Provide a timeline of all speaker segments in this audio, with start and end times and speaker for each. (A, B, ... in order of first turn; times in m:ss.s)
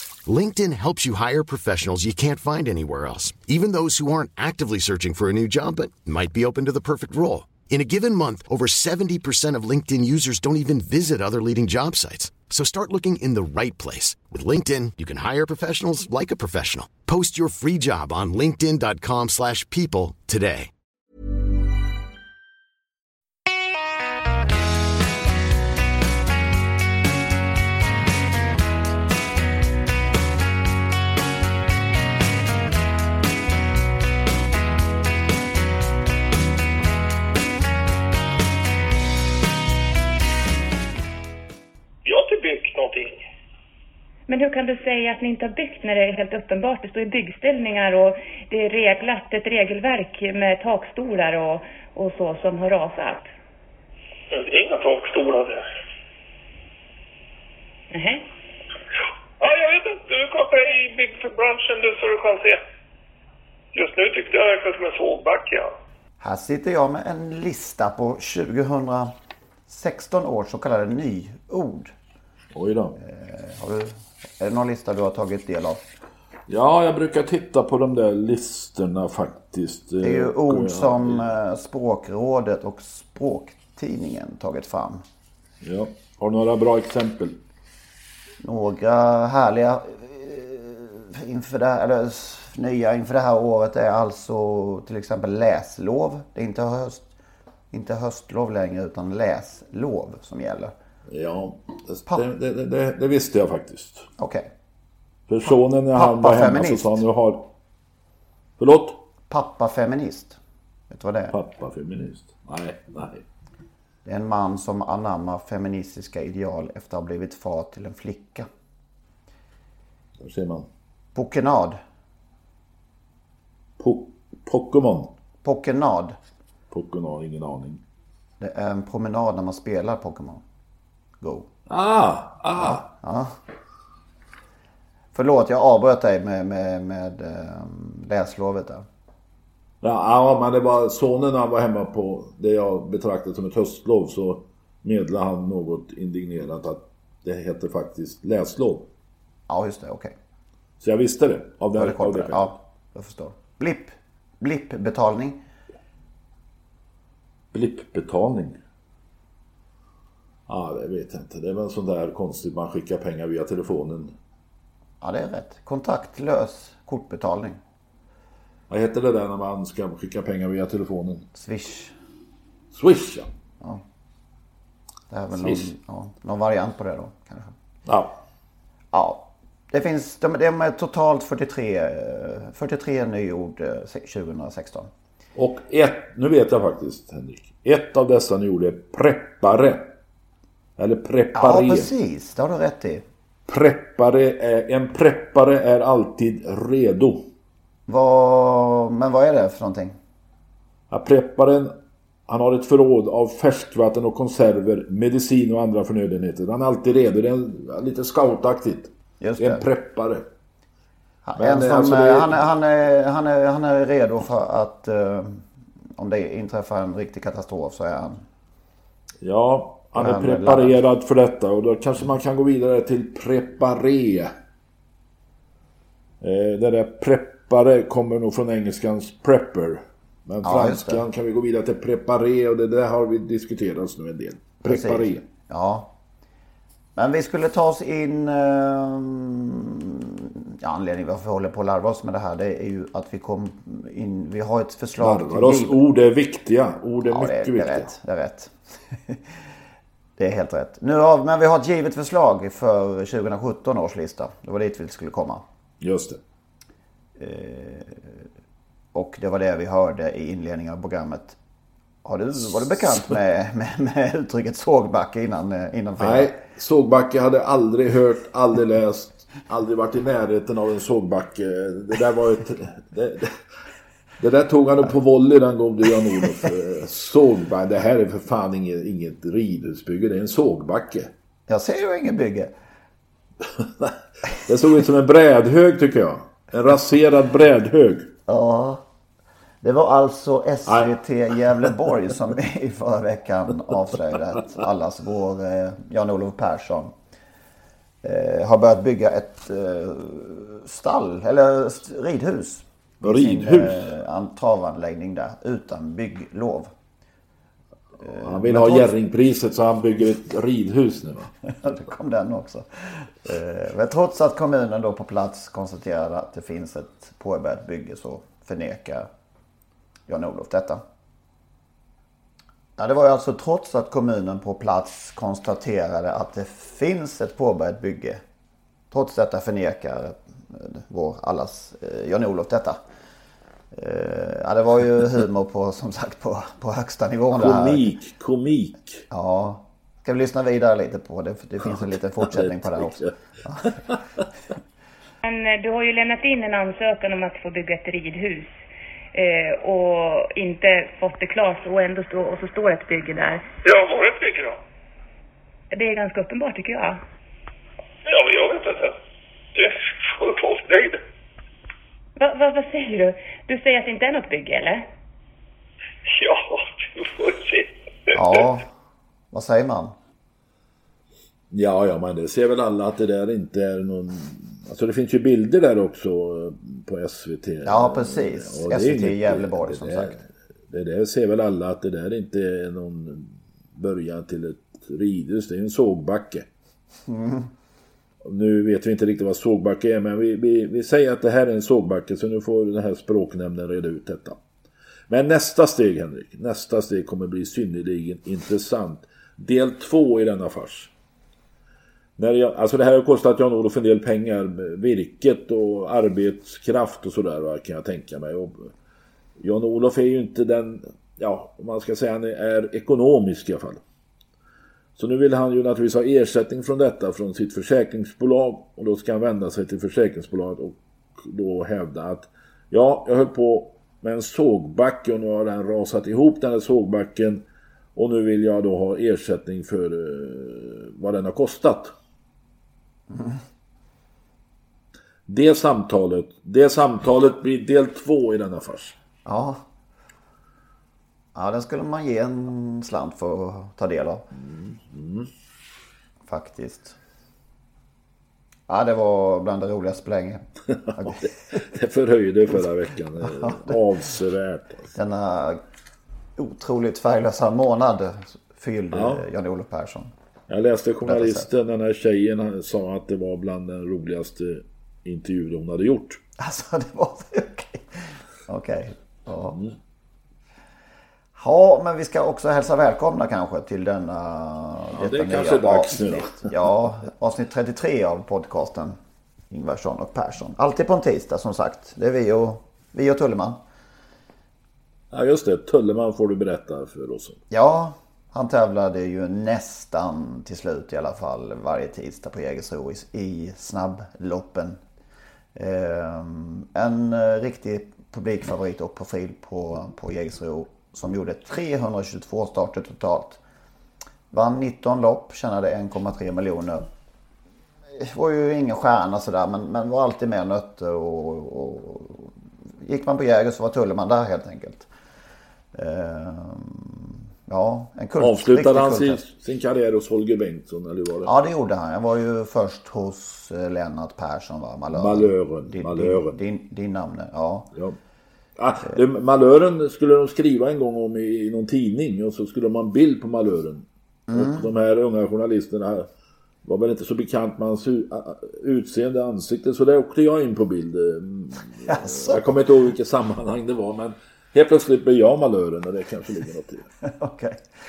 0:00.2-0:20.7 A
0:42.0-0:43.2 B
0:44.3-0:53.3 C
0:54.3-0:55.6 B
0:57.9-0:58.3 C
0:59.4-1:02.6 B
1:03.7-1:05.7 B
1:06.2-1:09.1 D
1:09.7-1:11.9 D
1:12.5-1:13.0 E
1:13.0-1:15.8 D
1:16.5-1:21.3 E
1:20.0-1:25.0 D
1:25.6-1:27.4 E
1:28.4-1:37.1 D
1:37.7-1:40.7 D
1:41.1-1:44.1 E
1:44.2-1:44.5 D
1:45.3-1:47.5 E
1:46.0-1:47.0 D
1:48.6-1:49.0 E
1:49.3-1:50.4 D
1:50.9-1:51.4 D
1:51.3-1:53.2 E
1:54.0-1:58.5 D
2:00.2-2:00.7 E
2:01.2-2:01.8 D
2:03.8-2:05.1 E
2:05.4-2:06.2 D
2:06.7-2:07.8 E
2:08.4-2:10.4 D
2:11.2-2:11.5 D
2:11.7-2:12.9 E
2:12.6-2:13.4 D
2:15.1-2:18.9 D
2:19.8-2:28.9 E
2:29.5-2:30.1 D
2:30.8-2:32.6 E
2:31.8-2:35.4 D
2:37.5-2:38.6 E
2:40.5-2:44.1 E
2:45.0-2:47.6 D
2:48.7-2:51.3 E
2:51.3-2:51.9 D
2:52.7-2:53.3 E
2:55.1-2:57.6 D
2:55.3-2:55.7 E
2:57.9-2:58.2 E
2:58.9-3:04.9 D
3:05.4-3:09.9 E
3:10.8-3:11.9 E
3:11.4-3:13.0 D
3:13.5-3:17.3 E
3:17.9-3:20.0 D
3:20.9-3:21.8 E
3:22.3-3:30.2 E
3:29.2-3:29.6 D
3:31.2-3:35.4 D
3:31.4-3:32.4 E
3:36.0-3:38.2 D
3:39.2-3:44.3 E
3:40.0-3:40.8 D
3:46.2-3:55.2 E
3:50.4-3:51.0 D
3:54.6-3:55.9 D
3:57.0-4:05.8 D
4:05.0-4:07.9 E
4:07.0-4:09.2 D
4:10.2-4:15.4 D
4:15.8-4:16.2 E
4:17.2-4:18.3 D
4:18.9-4:21.4 D
4:22.0-4:26.4 D
4:26.0-4:33.4 E
4:34.2-4:41.1 E
4:41.5-4:42.5 D
4:43.6-4:43.9 E
4:44.4-4:48.1 E
4:48.3-4:48.8 D
4:49.6-4:56.9 D
4:50.7-4:50.9 E
4:58.0-5:06.7 D
5:03.0-5:03.9 E
5:08.0-5:08.9 D
5:08.0-5:11.3 E
5:11.5-5:19.1 D
5:20.1-5:20.8 D
5:22.8-5:28.2 D
5:28.9-5:32.8 D
5:33.7-5:37.8 D
5:37.4-5:39.0 E
5:39.1-5:43.8 D
5:41.6-5:43.1 E
5:43.7-5:44.0 E
5:45.2-5:48.6 C
5:49.1-5:53.4 C
5:53.6-5:54.6 B
5:55.7-5:57.0 C
5:58.0-5:59.0 B
5:59.6-6:01.0 B
6:02.2-6:04.8 C
6:06.1-6:08.1 B
6:08.1-6:08.7 D
6:09.3-6:10.0 D
6:11.5-6:26.5 E
6:17.6-6:20.2 D
6:27.1-6:27.5 D
6:28.2-6:34.4 E
6:35.1-6:40.9 E
6:42.2-6:48.7 E
6:49.4-6:53.8 E
6:55.0-7:07.4 E
7:08.0-7:11.9 E
7:13.1-7:13.4 D
7:15.3-7:19.0 E
7:19.2-7:19.6 D
7:21.4-7:24.3 D
7:24.4-7:25.3 E
7:26.3-7:27.0 D
7:28.7-7:31.6 D
7:30.7-7:34.9 E
7:33.4-7:33.8 D
7:34.9-7:35.6 D
7:36.4-7:40.1 D
7:38.9-7:39.3 E
7:40.5-7:46.2 E
7:41.1-7:41.5 D
7:46.4-7:49.6 D
7:51.4-7:59.0 D
7:55.0-7:56.5 E
7:59.5-8:03.6 D
8:05.1-8:07.4 E
8:07.5-8:14.8 D
8:15.6-8:23.4 D
8:24.3-8:26.8 D
8:28.0-8:34.9 D
8:35.7-8:39.2 D
8:38.2-8:41.3 E
8:41.2-8:47.7 D
8:44.9-8:46.4 E
8:48.6-8:56.1 E
8:54.3-8:54.7 D
8:56.6-9:06.9 E
9:01.8-9:02.5 D
9:07.0-9:07.6 D